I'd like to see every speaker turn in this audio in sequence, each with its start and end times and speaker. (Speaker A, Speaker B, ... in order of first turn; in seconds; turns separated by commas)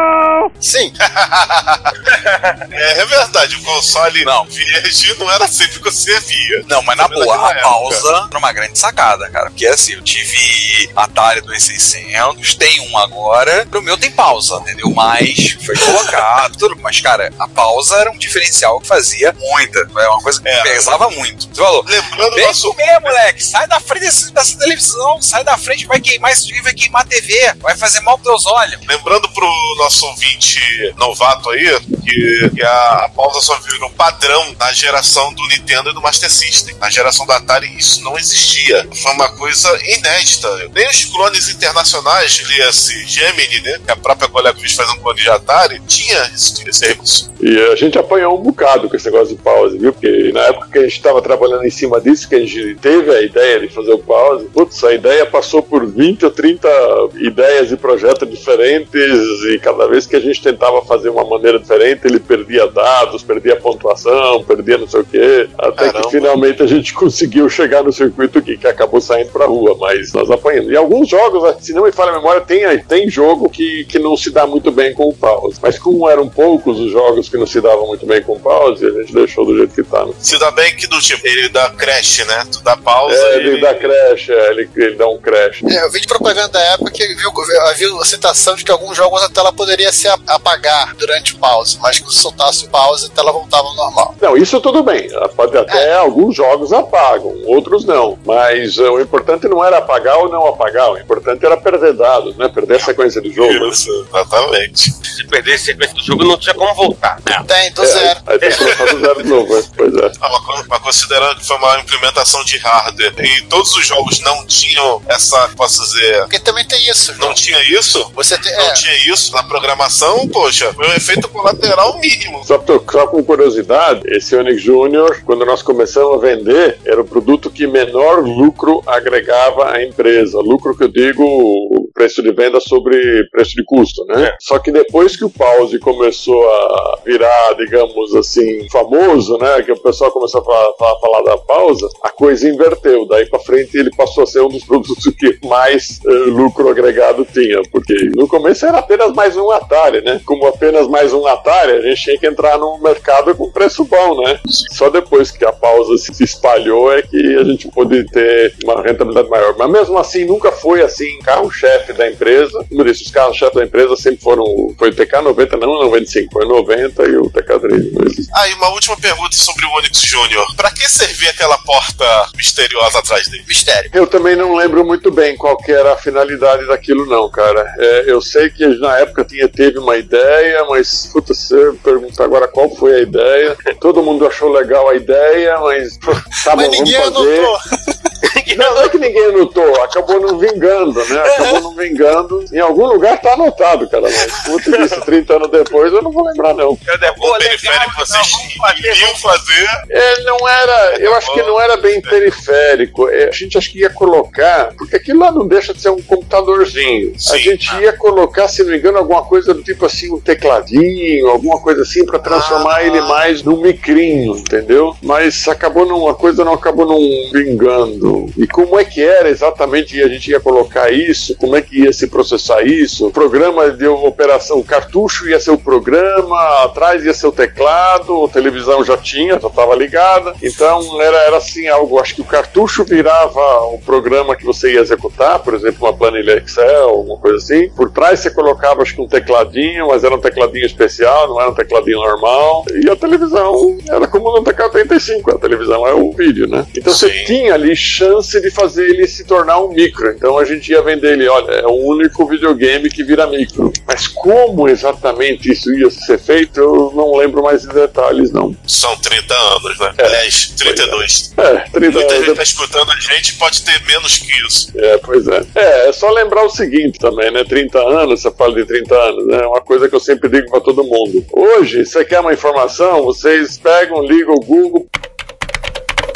Speaker A: 0.6-1.9, Speaker B: 2.1-2.6, Speaker C: 2.7-8.1, Speaker D: 4.2-4.5, Speaker D: 6.7-28.8, Speaker C: 20.4-21.1, Speaker C: 21.9-23.2, Speaker C: 28.9-47.3, Speaker E: 47.4-80.2, Speaker C: 65.8-66.3, Speaker C: 80.2-83.9, Speaker E: 83.1-85.6, Speaker A: 85.7-94.1, Speaker E: 94.2-103.8, Speaker C: 103.4-104.9, Speaker B: 105.1-107.2, Speaker A: 107.5-108.2, Speaker E: 107.8-110.1, Speaker C: 108.4-108.9, Speaker C: 110.2-116.3, Speaker A: 116.3-117.4, Speaker C: 117.2-122.5, Speaker A: 118.1-118.8, Speaker E: 122.5-168.3, Speaker C: 168.3-173.5, Speaker A: 173.5-173.9, Speaker E: 173.9-187.5, Speaker A: 186.5-187.6, Speaker B: 188.2-188.9, Speaker E: 188.5-196.8, Speaker B: 196.8-199.4, Speaker C: 197.2-199.8, Speaker E: 199.9-258.6, Speaker C: 200.9-202.3, Speaker C: 207.2-207.6, Speaker C: 212.2-213.2, Speaker C: 246.9-247.3, Speaker C: 258.7-261.3, Speaker E: 260.0-262.4, Speaker C: 261.9-264.7, Speaker E: 264.7-274.9